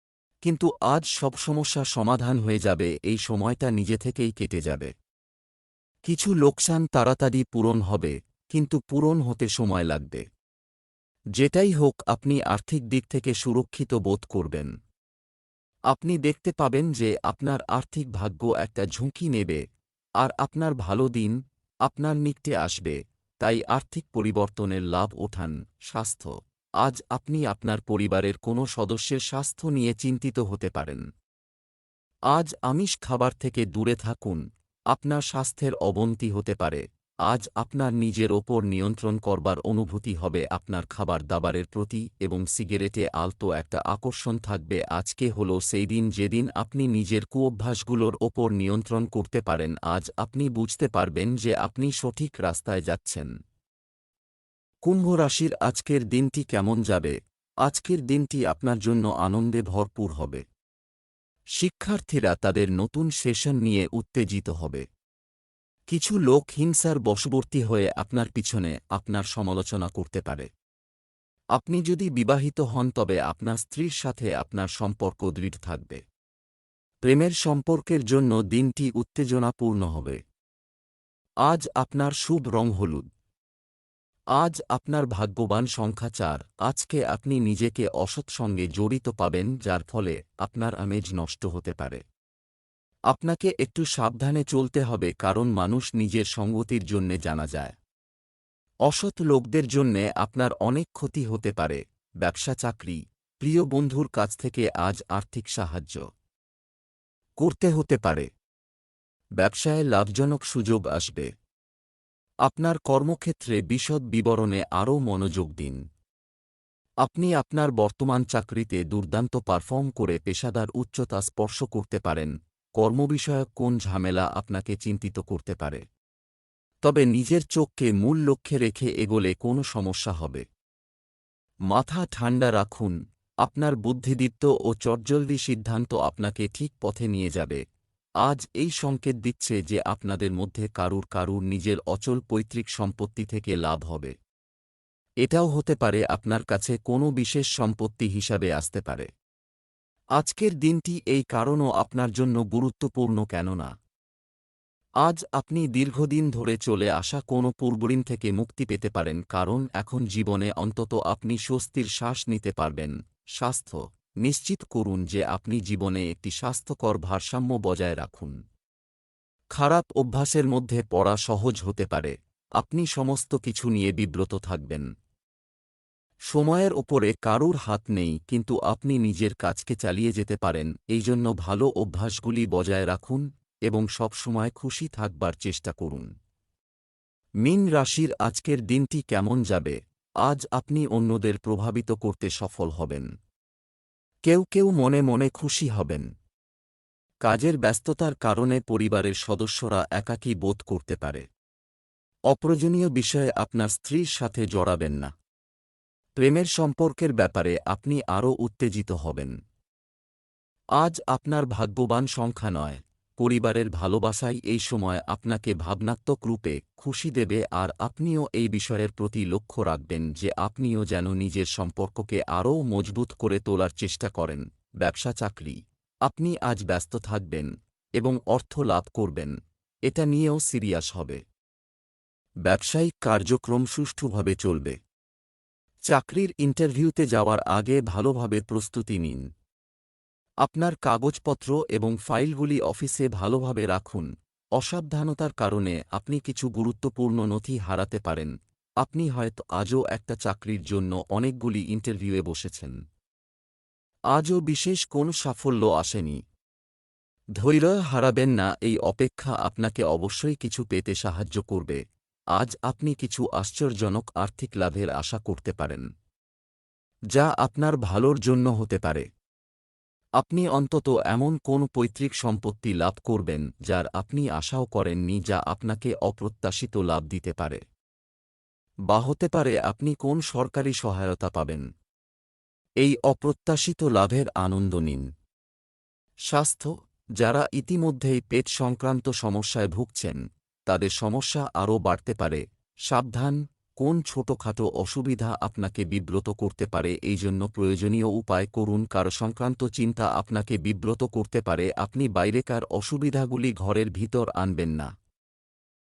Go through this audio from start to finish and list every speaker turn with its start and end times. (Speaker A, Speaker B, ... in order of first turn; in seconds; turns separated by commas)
Speaker A: 0.4-4.9, Speaker A: 6.1-10.2, Speaker A: 11.4-14.7, Speaker A: 15.9-19.6, Speaker A: 20.2-31.0, Speaker A: 32.3-53.3, Speaker A: 54.8-60.4, Speaker A: 61.6-64.8, Speaker A: 65.9-70.5, Speaker A: 71.5-76.0, Speaker A: 77.0-80.2, Speaker A: 81.4-83.1, Speaker A: 84.3-92.0, Speaker A: 93.1-97.8, Speaker A: 98.9-106.1, Speaker A: 107.4-108.3, Speaker A: 109.4-111.3, Speaker A: 112.5-115.8, Speaker A: 117.0-125.8, Speaker A: 126.8-130.4, Speaker A: 131.7-137.6, Speaker A: 138.2-144.1, Speaker A: 145.2-149.1, Speaker A: 150.2-153.7, Speaker A: 155.0-168.4, Speaker A: 169.5-174.9, Speaker A: 176.3-186.1, Speaker A: 187.4-193.1, Speaker A: 194.2-196.1, Speaker A: 197.2-201.3, Speaker A: 202.3-205.1, Speaker A: 206.2-209.3, Speaker A: 210.8-229.3, Speaker A: 229.9-231.2, Speaker A: 232.4-234.8, Speaker A: 235.9-239.2, Speaker A: 240.4-252.8, Speaker A: 254.1-256.2, Speaker A: 257.4-261.8, Speaker A: 262.3-265.9, Speaker A: 267.1-269.1, Speaker A: 270.2-277.6, Speaker A: 278.9-281.6, Speaker A: 282.8-285.1, Speaker A: 286.3-304.9